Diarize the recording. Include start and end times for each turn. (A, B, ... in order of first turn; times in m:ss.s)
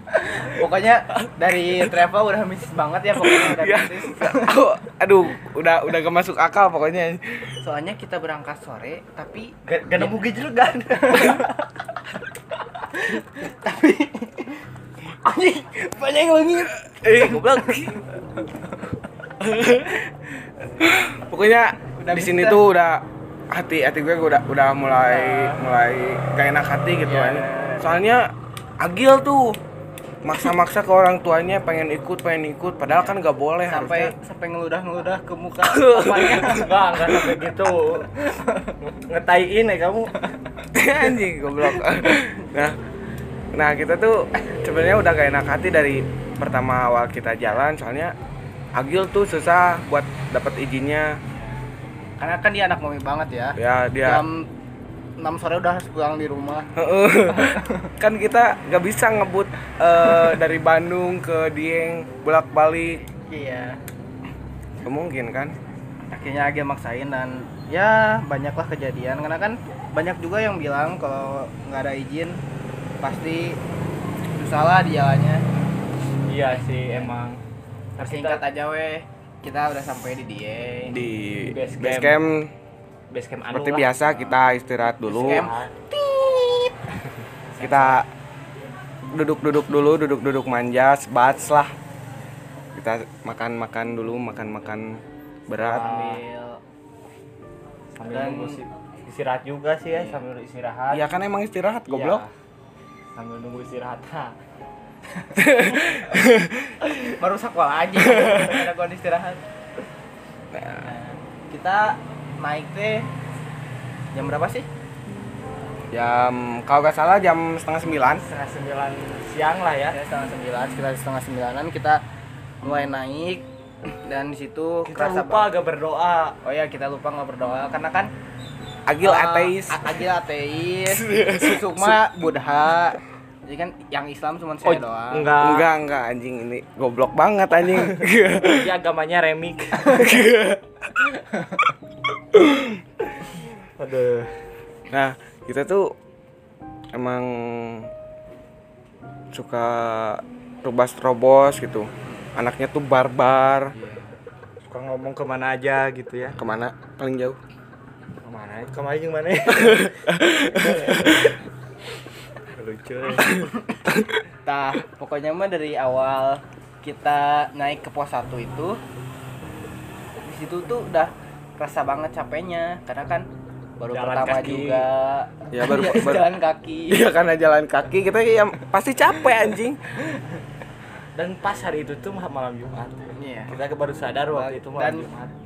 0:00.2-0:04.6 A
0:03.2-0:07.5 B
0:07.6-0:10.1 A
0:09.6-0:11.5 C
0:11.0-0:11.5 A
0:12.9-0:14.6 A
0:15.2-0:18.0 A
0:17.0-0:18.0 B
0:19.4-0:20.1 B
0:20.8-0:29.6 B
0:22.0-0:22.6 A
0:25.0-0:25.6 A
0:27.0-0:28.0 A
0:30.2-0:34.2 B
0:33.7-0:36.7 A
0:35.6-0:37.4 B
0:36.2-0:40.1 C
0:40.7-0:42.8 B
0:43.5-0:48.1 B
0:48.8-0:51.2 B
0:52.2-0:54.5 A
0:53.6-0:54.2 B
0:55.2-0:56.7 A
0:56.8-1:03.0 B
0:57.3-0:57.9 A
1:00.0-1:00.3 A
1:03.1-1:03.8 A
1:04.8-1:05.6 B
1:06.1-1:12.4 A
1:13.0-1:13.6 A
1:14.4-1:15.4 A
1:16.3-1:17.4 C
1:18.0-1:18.4 C
1:18.0-1:21.0 A
1:20.9-1:22.5 B
1:21.4-1:22.2 C
1:23.1-1:24.4 C
1:23.5-1:25.5 B
1:24.9-1:25.7 C
1:25.1-1:26.8 A
1:27.5-1:28.0 C
1:27.6-1:28.1 B
1:29.1-1:31.7 B
1:32.8-1:36.0 B
1:35.6-1:36.2 C
1:35.6-1:36.6 A
1:38.0-1:41.0 C
1:38.1-1:38.6 A
1:39.9-1:40.2 A
1:40.9-1:42.2 B
1:41.9-1:42.3 C
1:43.2-1:44.4 C
1:45.2-1:45.8 A
1:45.4-1:46.8 B
1:47.0-1:49.4 A
1:48.0-1:48.6 B
1:50.5-1:50.9 B
1:50.8-1:53.1 A
1:54.1-1:54.7 A
1:55.9-1:58.3 B
1:58.2-2:00.0 C
1:59.9-2:02.0 A
2:02.6-2:05.5 A
2:04.9-2:06.4 C
2:06.4-2:08.1 A
2:08.9-2:10.0 B
2:09.0-2:15.4 A
2:10.9-2:12.0 B
2:14.6-2:15.7 C
2:15.4-2:18.8 B
2:18.4-2:20.2 C
2:19.8-2:20.8 B
2:21.3-2:21.6 A
2:22.3-2:22.8 B
2:23.4-2:24.3 C
2:24.9-2:26.0 B
2:26.9-2:27.9 B
2:29.3-2:33.8 B
2:33.7-2:34.2 A
2:34.7-2:36.4 C
2:36.4-2:37.4 B
2:38.2-2:41.4 C
2:39.5-2:41.3 B
2:42.5-2:43.6 C
2:44.5-2:48.8 A
2:50.2-2:53.3 A
2:53.8-2:57.1 A
2:53.9-2:54.9 C
2:55.5-2:56.3 B
2:56.9-2:59.8 B
3:01.2-3:05.3 C
3:03.2-3:03.6 A
3:04.3-3:05.1 A